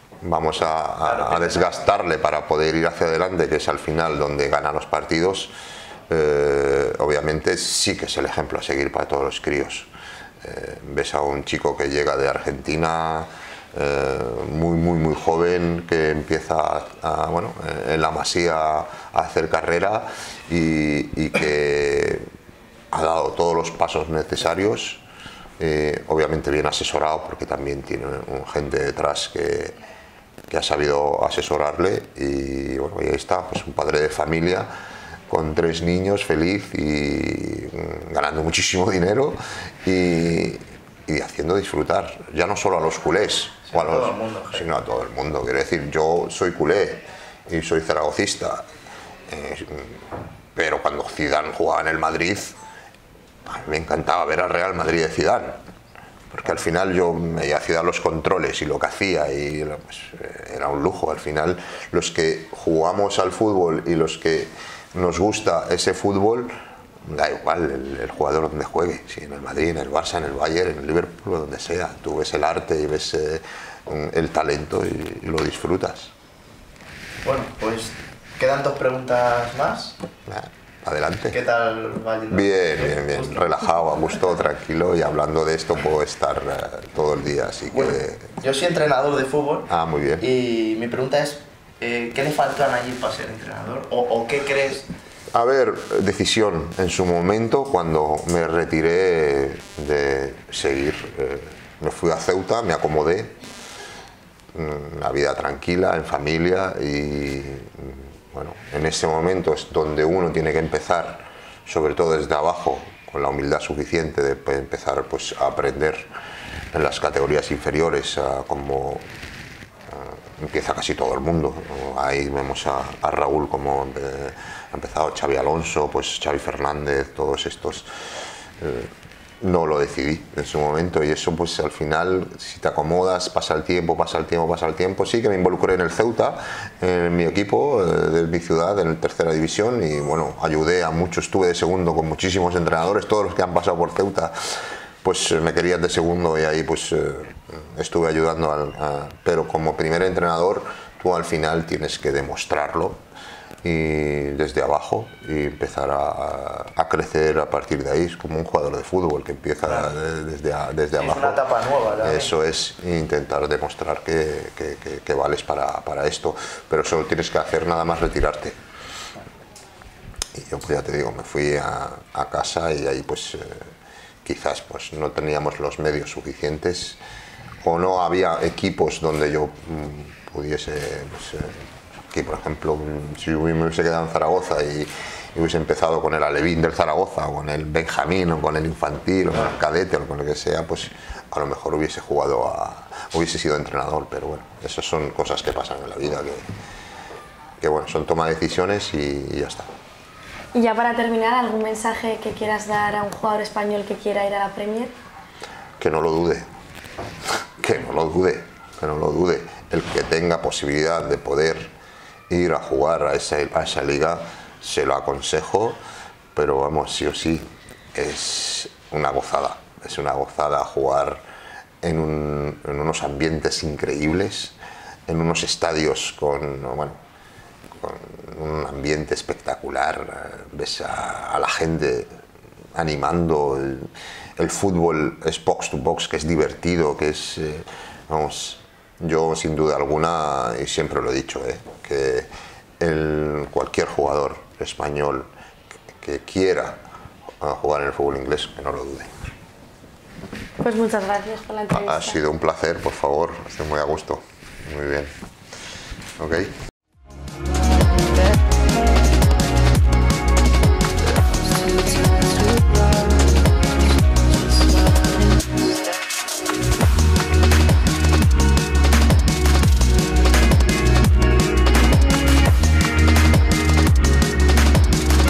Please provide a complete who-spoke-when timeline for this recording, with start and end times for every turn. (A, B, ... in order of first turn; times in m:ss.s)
0:00.2-0:05.5 A
0:01.0-0:01.8 B
0:06.1-0:09.9 A
0:10.4-0:22.3 A
0:22.9-0:25.0 A
0:25.6-0:29.8 A
0:30.5-0:34.7 A
0:35.3-0:48.7 A
0:43.7-0:44.7 B
0:49.3-0:52.6 A
0:53.4-0:55.6 A
0:56.3-1:06.5 A
1:07.0-1:16.1 A
1:17.2-1:20.0 B
1:20.2-1:21.4 A
1:21.3-1:23.5 B
1:22.3-1:28.4 A
1:27.7-1:34.9 B
1:29.7-1:30.3 A
1:35.3-1:43.4 A
1:44.5-1:56.1 A
1:56.7-1:59.1 A
1:59.9-2:07.9 A
2:08.6-2:08.9 A
2:09.4-2:33.0 A
2:33.6-2:41.4 A
2:39.6-2:39.9 B
2:41.0-2:42.3 B
2:42.0-2:48.6 A
2:50.3-2:53.7 A
2:54.2-2:57.0 A
2:57.6-3:16.5 A
3:17.6-3:19.7 A
3:20.5-3:24.9 C
3:25.8-3:26.5 A
3:27.6-3:31.7 A
3:32.3-3:35.8 A
3:36.3-3:41.2 A
3:41.8-3:44.6 A
3:45.1-3:47.0 A
3:47.8-3:52.1 A
3:52.7-4:02.3 A
4:02.8-4:05.3 A
4:06.0-4:06.8 A
4:07.4-4:09.2 A
4:10.6-4:12.2 C
4:11.7-4:15.1 A
4:16.2-4:16.5 A